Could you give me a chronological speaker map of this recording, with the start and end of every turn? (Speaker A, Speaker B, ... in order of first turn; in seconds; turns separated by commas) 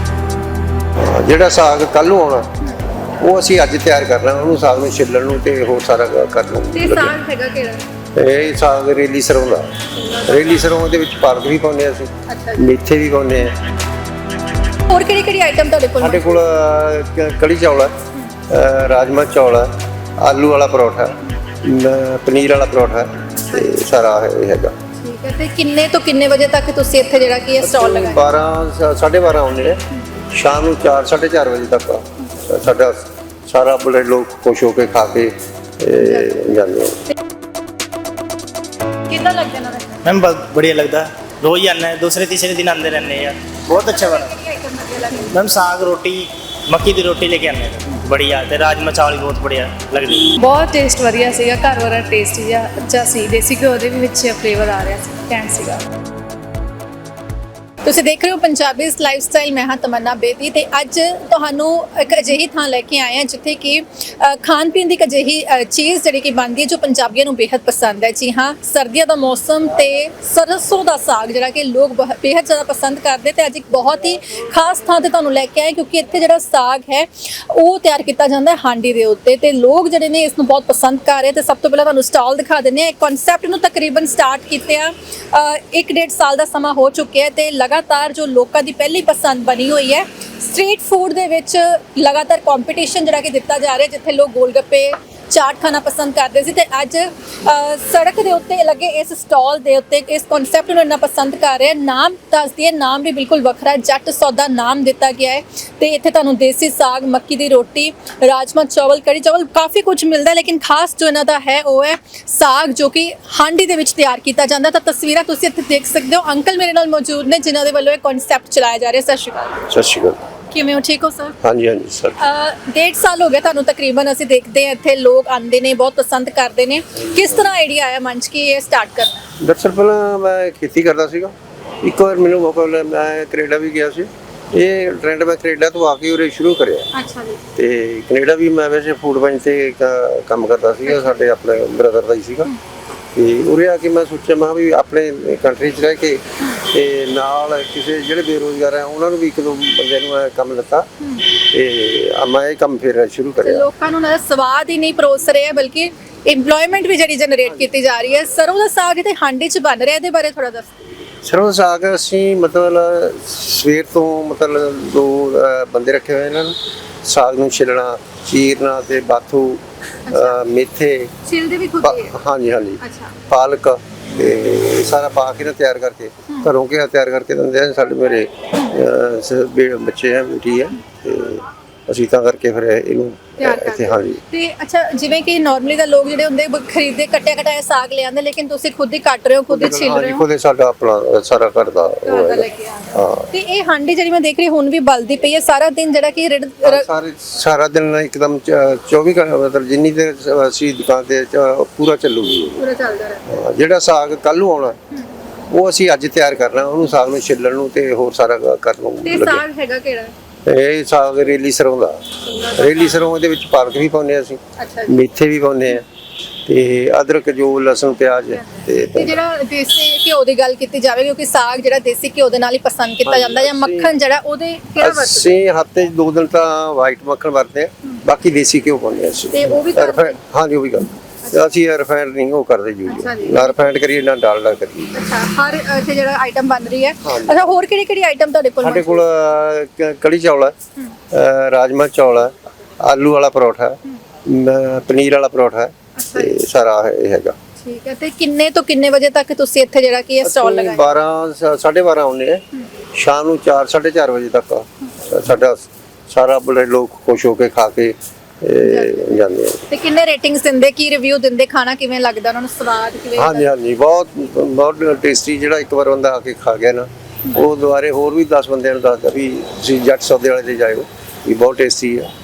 Speaker A: 1.0-2.5, Speaker A: 3.2-7.1, Speaker B: 6.7-7.8, Speaker A: 8.1-13.5, Speaker B: 9.9-10.6, Speaker B: 12.3-12.7, Speaker B: 14.9-16.4, Speaker A: 16.0-17.9, Speaker A: 18.5-24.7, Speaker B: 23.4-23.7, Speaker B: 25.0-28.3, Speaker A: 27.6-37.0, Speaker B: 36.0-36.4, Speaker B: 39.1-40.0, Speaker C: 40.2-43.3, Speaker B: 43.7-45.4, Speaker C: 45.5-46.2, Speaker C: 46.7-50.2, Speaker D: 50.4-55.8, Speaker B: 57.8-119.6, Speaker A: 119.7-120.2, Speaker B: 120.5-121.3, Speaker A: 121.4-122.2, Speaker B: 122.2-129.2, Speaker A: 129.4-136.9, Speaker B: 136.9-137.4, Speaker A: 137.5-142.5, Speaker A: 143.2-153.7, Speaker B: 153.4-160.8, Speaker A: 161.2-171.1, Speaker B: 170.1-170.4, Speaker B: 171.2-172.1, Speaker A: 171.8-184.2, Speaker B: 172.8-173.1, Speaker B: 183.4-190.2, Speaker A: 189.5-193.3, Speaker B: 192.1-196.9, Speaker A: 196.6-202.6, Speaker B: 202.6-203.2, Speaker A: 203.3-204.8, Speaker A: 205.5-209.4, Speaker B: 209.0-210.1, Speaker A: 210.4-215.8, Speaker B: 212.2-213.0, Speaker B: 214.6-214.9, Speaker A: 216.4-219.2, Speaker B: 218.3-225.4, Speaker A: 223.0-223.9, Speaker A: 224.8-234.9, Speaker B: 229.3-230.2, Speaker B: 232.9-233.6, Speaker B: 234.9-239.0, Speaker A: 237.0-237.4, Speaker A: 238.6-240.5, Speaker A: 241.1-247.3, Speaker B: 245.9-246.3, Speaker B: 247.6-250.9, Speaker A: 250.2-252.4, Speaker A: 252.9-259.6, Speaker B: 258.6-263.5, Speaker A: 263.1-272.1